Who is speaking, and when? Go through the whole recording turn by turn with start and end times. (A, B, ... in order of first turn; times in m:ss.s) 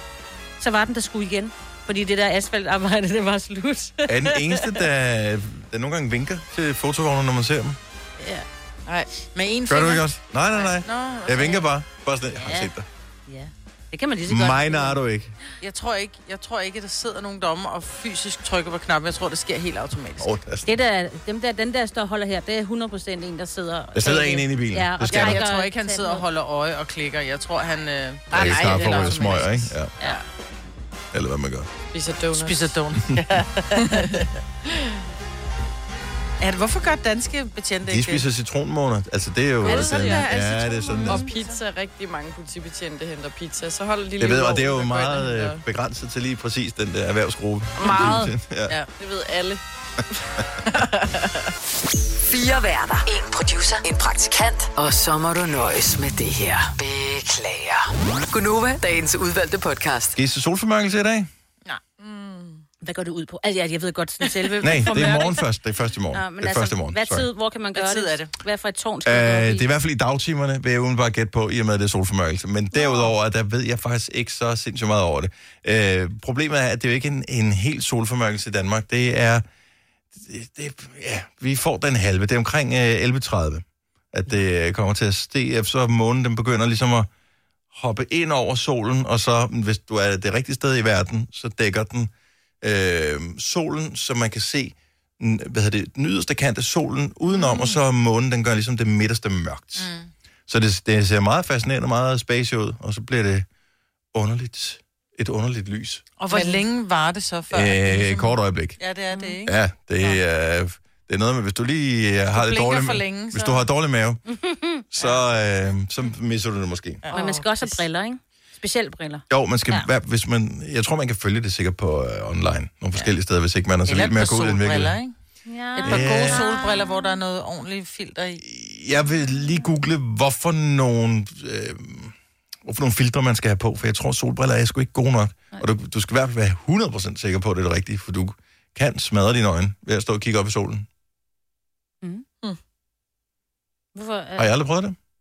0:00.6-0:04.8 A
0:04.1-0:07.8 B
0:09.3-0:11.7 C
0:09.7-0:12.9 B
0:12.3-0:12.7 A
0:13.3-0:15.0 A
0:14.3-0:15.3 B
0:15.6-0:20.3 C
0:20.2-0:20.8 B
0:20.7-0:26.3 A
0:23.9-0:25.5 B
0:25.0-0:30.2 C
0:28.3-0:29.9 B
0:28.3-0:29.5 D
0:31.1-0:31.7 B
0:31.9-0:32.7 D
0:32.3-0:34.3 C
0:33.8-0:35.0 D
0:36.4-0:38.2 C
0:37.9-0:41.3 B
0:39.6-0:40.3 D
0:39.6-0:41.5 C
0:41.0-0:45.6 D
0:44.2-0:48.8 B
0:47.8-0:48.3 D
0:47.8-0:48.9 C
0:49.0-0:49.6 D
0:50.7-0:51.5 D
0:52.2-1:00.2 E
1:00.2-1:01.3 B
1:02.0-1:02.6 D
1:02.8-1:05.4 A
1:04.6-1:07.3 B
1:06.1-1:09.7 A
1:07.7-1:08.3 C
1:09.0-1:19.4 B
1:20.1-1:27.1 B
1:27.7-1:32.1 B
1:32.6-1:39.9 B
1:39.8-1:40.1 C
1:40.5-1:43.5 B
1:44.1-1:46.0 B
1:46.2-1:50.2 C
1:46.3-1:46.6 D
1:47.5-1:48.8 B
1:49.4-1:54.2 B
1:52.3-1:53.6 C
1:54.3-1:54.8 A
1:54.9-1:57.0 B
1:55.0-1:55.2 C
1:57.0-1:57.4 C
1:57.1-1:59.9 A
1:59.3-2:05.0 B
2:03.9-2:05.1 C
2:05.5-2:07.1 A
2:05.8-2:08.4 C
2:05.8-2:06.5 B
2:08.4-2:20.9 B
2:24.0-2:24.5 A
2:24.4-2:25.0 B